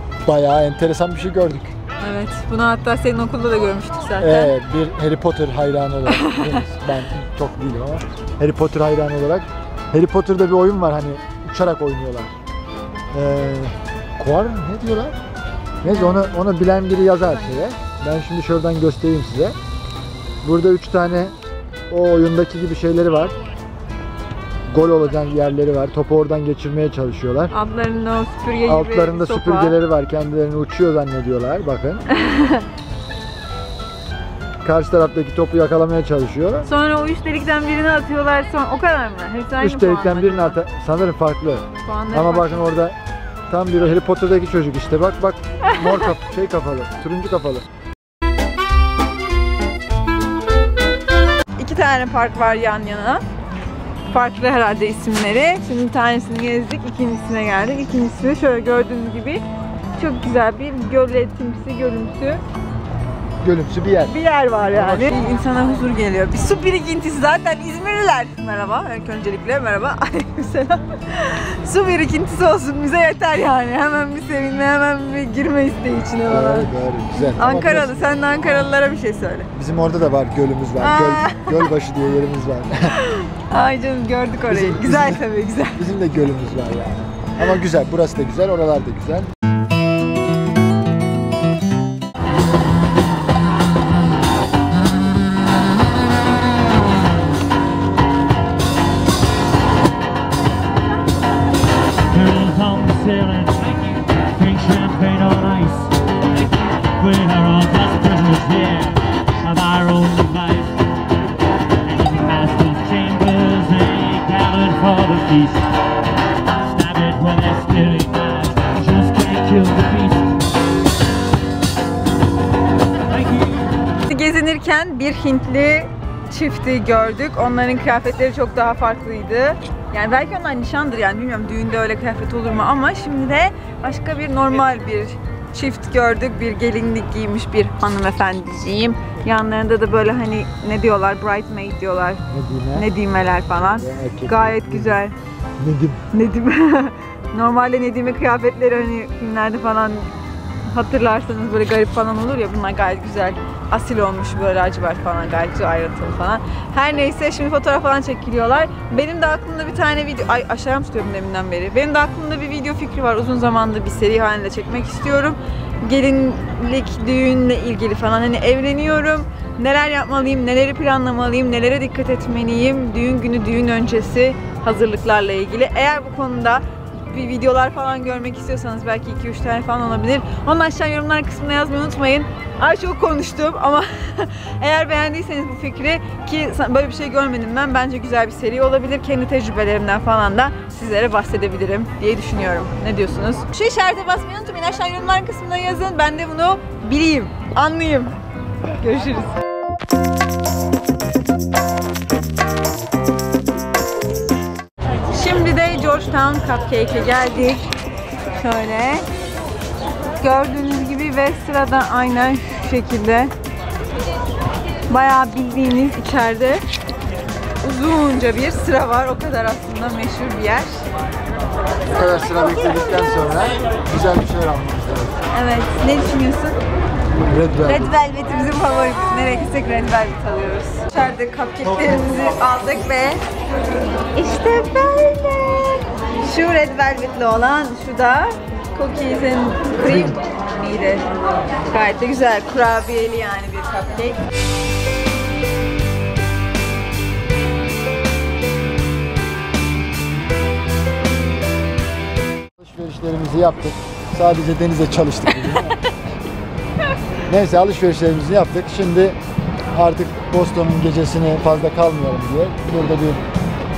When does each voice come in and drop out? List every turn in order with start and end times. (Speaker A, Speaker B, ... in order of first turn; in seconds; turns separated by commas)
Speaker A: 0.2-1.7, Speaker B: 2.0-4.5, Speaker A: 4.2-12.3, Speaker B: 6.1-6.6, Speaker A: 13.1-15.2, Speaker A: 15.8-19.5, Speaker B: 15.9-16.4, Speaker A: 20.4-21.3, Speaker A: 21.9-23.3, Speaker A: 24.7-27.5, Speaker B: 27.5-29.8, Speaker A: 28.6-32.0, Speaker B: 32.1-32.7, Speaker A: 34.6-36.7, Speaker B: 36.6-40.6, Speaker A: 39.6-43.0, Speaker B: 41.8-42.6, Speaker A: 43.5-47.6, Speaker B: 45.6-46.1, Speaker B: 51.6-53.2, Speaker B: 54.1-59.4, Speaker B: 60.0-62.4, Speaker A: 63.4-64.1, Speaker B: 64.0-79.5, Speaker A: 64.7-65.2, Speaker A: 76.3-78.7, Speaker A: 79.5-82.9, Speaker B: 80.8-81.7, Speaker B: 82.9-85.8, Speaker A: 84.5-89.3, Speaker C: 102.1-106.0, Speaker C: 107.0-111.0, Speaker C: 111.8-115.7, Speaker C: 116.6-120.4, Speaker C: 123.1-123.7, Speaker B: 124.0-145.1, Speaker A: 142.3-142.9, Speaker A: 143.7-145.0, Speaker A: 145.6-146.1, Speaker B: 146.1-150.1, Speaker B: 150.7-198.2, Speaker B: 198.7-199.3, Speaker B: 205.1-207.7, Speaker B: 208.3-209.1, Speaker B: 210.2-213.3, Speaker B: 214.9-216.6, Speaker B: 217.6-220.8, Speaker A: 221.9-225.1, Speaker B: 225.3-226.6, Speaker A: 227.3-227.9, Speaker B: 227.6-233.2, Speaker B: 234.1-241.1, Speaker B: 241.7-244.2, Speaker A: 252.6-255.8, Speaker B: 255.4-255.7, Speaker A: 257.3-259.2, Speaker A: 259.7-263.2